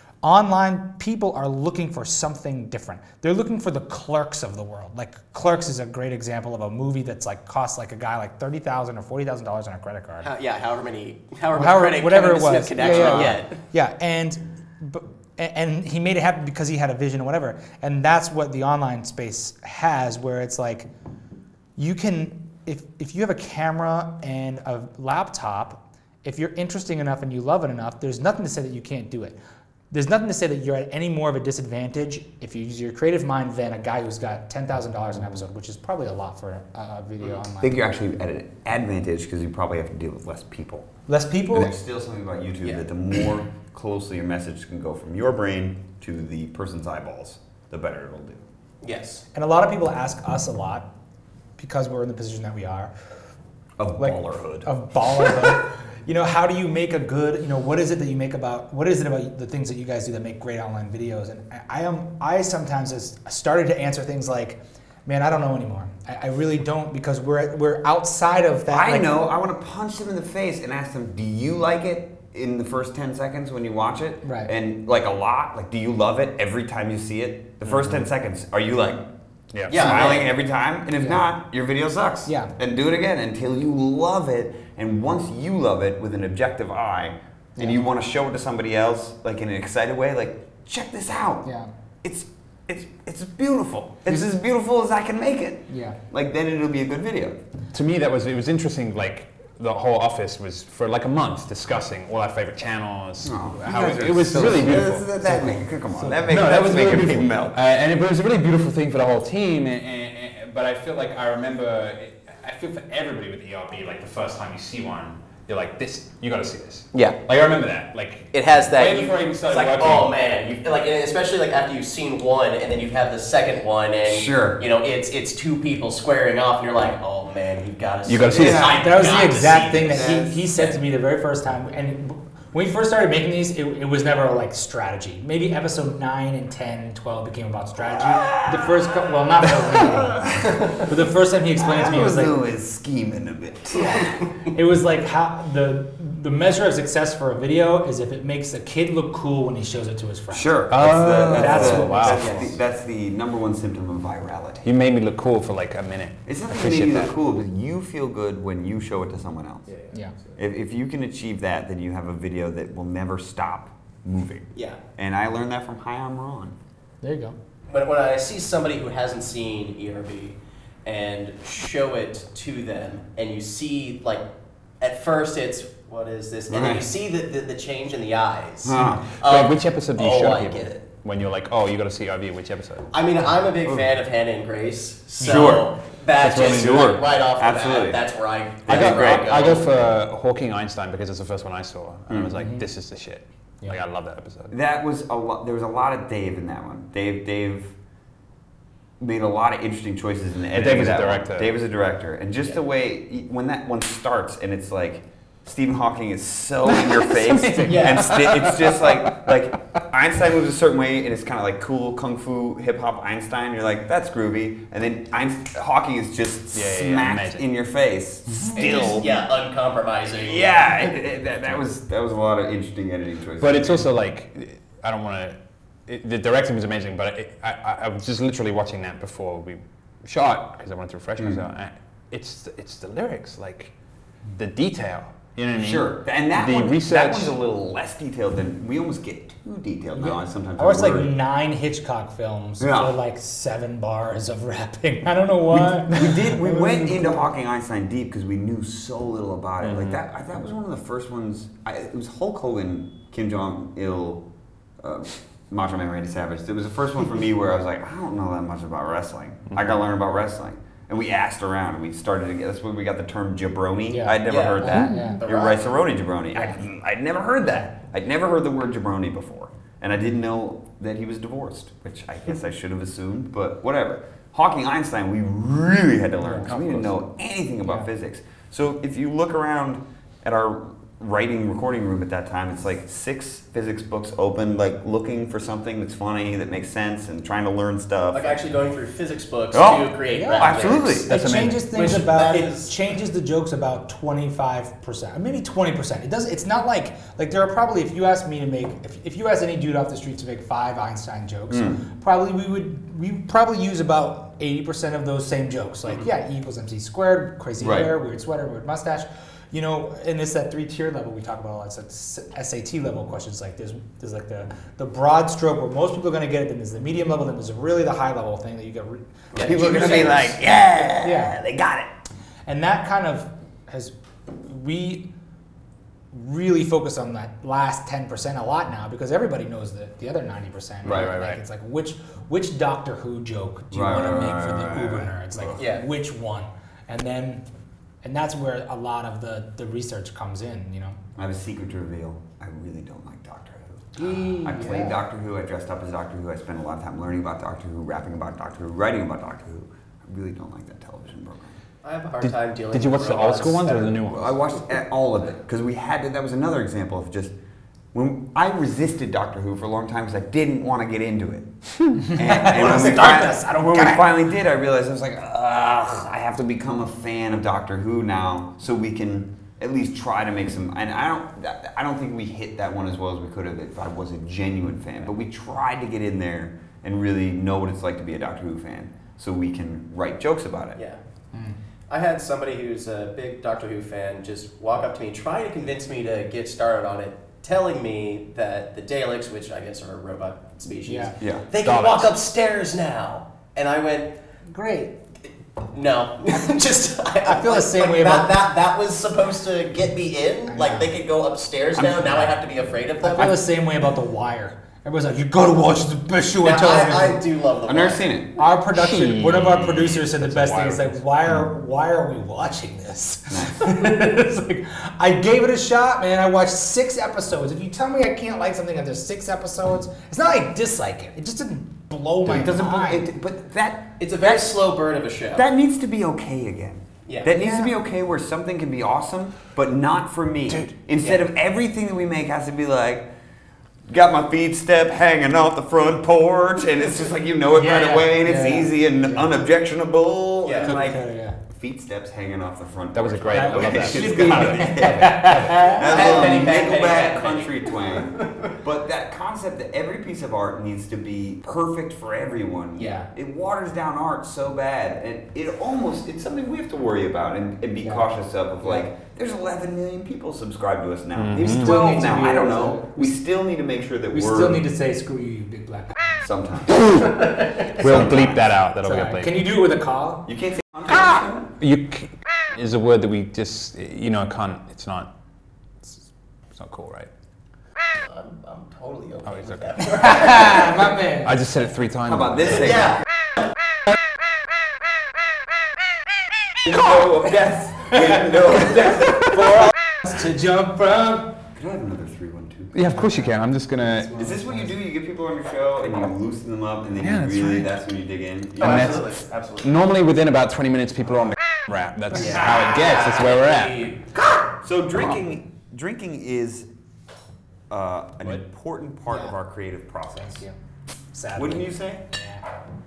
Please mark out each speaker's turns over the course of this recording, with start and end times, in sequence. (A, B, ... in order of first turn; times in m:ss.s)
0:00.2-0:10.3 A
0:10.2-0:13.6 B
0:11.6-0:20.9 A
0:12.8-0:13.4 C
0:21.8-0:29.4 A
0:29.9-0:37.8 A
0:37.6-0:40.9 C
0:41.1-0:41.7 A
0:41.5-0:48.4 C
0:48.8-0:49.2 B
0:49.3-0:50.9 A
0:51.6-0:52.9 A
0:53.8-0:55.4 C
0:54.0-1:09.1 A
1:08.7-1:19.0 C
1:14.2-1:14.5 A
1:19.5-1:20.2 D
1:19.7-1:20.3 B
1:19.7-1:31.5 C
1:22.3-1:22.5 A
1:27.6-1:27.8 A
1:31.4-1:31.7 A
1:32.0-1:37.4 C
1:35.7-1:36.0 A
1:37.7-1:45.4 D
1:43.2-1:47.6 C
1:44.4-1:46.2 A
1:46.2-2:00.1 D
1:56.9-1:57.2 B
1:58.3-2:10.8 B
2:04.1-2:04.6 C
2:08.1-2:08.9 D
2:08.3-2:08.9 C
2:08.7-2:22.4 A
2:09.6-2:10.5 C
2:18.0-2:18.8 C
2:19.7-2:20.8 C
2:21.6-2:24.2 C
2:24.5-2:32.2 A
2:30.3-2:34.7 C
2:30.7-2:32.5 D
2:32.2-2:32.5 B
2:34.6-2:37.1 D
2:36.3-2:39.7 C
2:40.4-2:46.6 C
2:44.5-2:44.8 B
2:47.0-2:47.4 A
2:47.7-2:54.3 B
2:54.8-3:00.8 B
2:56.5-2:56.9 C
2:58.6-2:59.1 C
2:59.1-3:02.9 D
3:02.9-3:09.8 B
3:05.2-3:05.7 C
3:05.2-3:05.5 A
3:06.2-3:07.0 D
3:06.3-3:08.0 C
3:08.7-3:09.3 C
3:08.7-3:14.5 D
3:12.1-3:12.4 C
3:14.5-3:17.7 C
3:19.0-3:39.2 C
3:20.5-3:21.6 D
3:26.7-3:29.3 D
3:27.6-3:28.2 B
3:36.5-3:37.5 D
3:38.6-3:40.9 B
3:40.2-3:43.9 C
3:43.4-3:45.4 D
3:45.9-3:53.7 D
3:54.3-3:57.4 D
3:55.6-4:01.1 C
3:59.9-4:07.3 A
4:02.6-4:03.0 C
4:05.5-4:14.2 C
4:09.6-4:10.0 D
4:14.8-4:48.4 C
4:23.9-4:25.2 A
4:24.3-4:25.7 B
4:36.2-4:36.5 A
4:36.5-4:36.9 D
4:48.1-4:51.0 B
4:49.5-4:51.1 C
4:50.1-5:21.4 A
4:51.0-4:51.6 D
4:51.7-4:52.7 B
5:01.5-5:01.8 C
5:07.6-5:07.9 C
5:19.3-5:20.3 B
5:19.4-5:21.9 C
5:22.5-5:25.1 A
5:26.1-5:37.4 A
5:30.8-5:31.2 C
5:30.8-5:31.4 D
5:33.7-5:35.6 C
5:35.6-5:35.8 B
5:38.0-5:41.0 A
5:41.2-5:51.6 C
5:44.0-5:45.0 A
5:51.8-5:54.0 B
5:52.2-5:54.4 D
5:54.0-5:57.3 C
5:57.9-6:20.8 C
6:02.0-6:04.1 A
6:20.8-6:21.0 B
6:21.9-6:34.2 B
6:30.9-6:31.2 A
6:31.2-6:31.5 C
6:31.6-6:32.1 D
6:34.5-6:35.0 A
6:35.7-6:43.4 B
6:37.2-6:38.4 A
6:40.5-6:40.9 A
6:41.8-6:42.4 C
6:43.0-6:47.2 A
6:46.4-6:48.1 B
6:47.7-6:48.4 C
6:48.4-7:03.1 A
6:48.7-6:51.0 D
6:53.3-6:53.8 C
7:02.2-7:04.6 C
7:04.0-7:05.5 B
7:05.4-7:13.1 C
7:07.1-7:07.3 B
7:07.3-7:07.7 A
7:13.9-7:44.7 C
7:17.5-7:19.3 A
7:20.4-7:20.8 B
7:20.6-7:21.4 A
7:22.9-7:26.6 D
7:23.3-7:26.9 A
7:25.8-7:28.5 B
7:32.8-7:33.0 A
7:41.2-7:41.8 D
7:41.5-7:43.1 A
7:44.1-7:46.2 A
7:46.2-7:48.6 C
7:46.7-7:49.4 D
7:48.8-7:50.3 A
7:50.3-7:51.5 C
7:50.9-7:55.1 D
7:56.5-7:57.1 D
7:58.0-8:00.8 B
7:59.3-8:00.7 D
7:59.8-8:01.4 A
8:01.2-8:02.9 D
8:02.1-8:03.0 C
8:06.6-8:09.5 C
8:08.7-8:11.4 A
8:11.5-8:13.2 C
8:12.7-8:14.3 D
8:14.0-8:14.7 A
8:14.1-8:19.1 C
8:17.0-8:17.7 D
8:18.6-8:19.7 B
8:18.6-8:23.9 D
8:22.1-8:24.0 B
8:24.6-8:26.7 C
8:27.7-8:30.4 C
8:29.1-8:29.3 A
8:30.2-8:30.6 A
8:31.1-8:32.4 A
8:31.3-8:32.1 C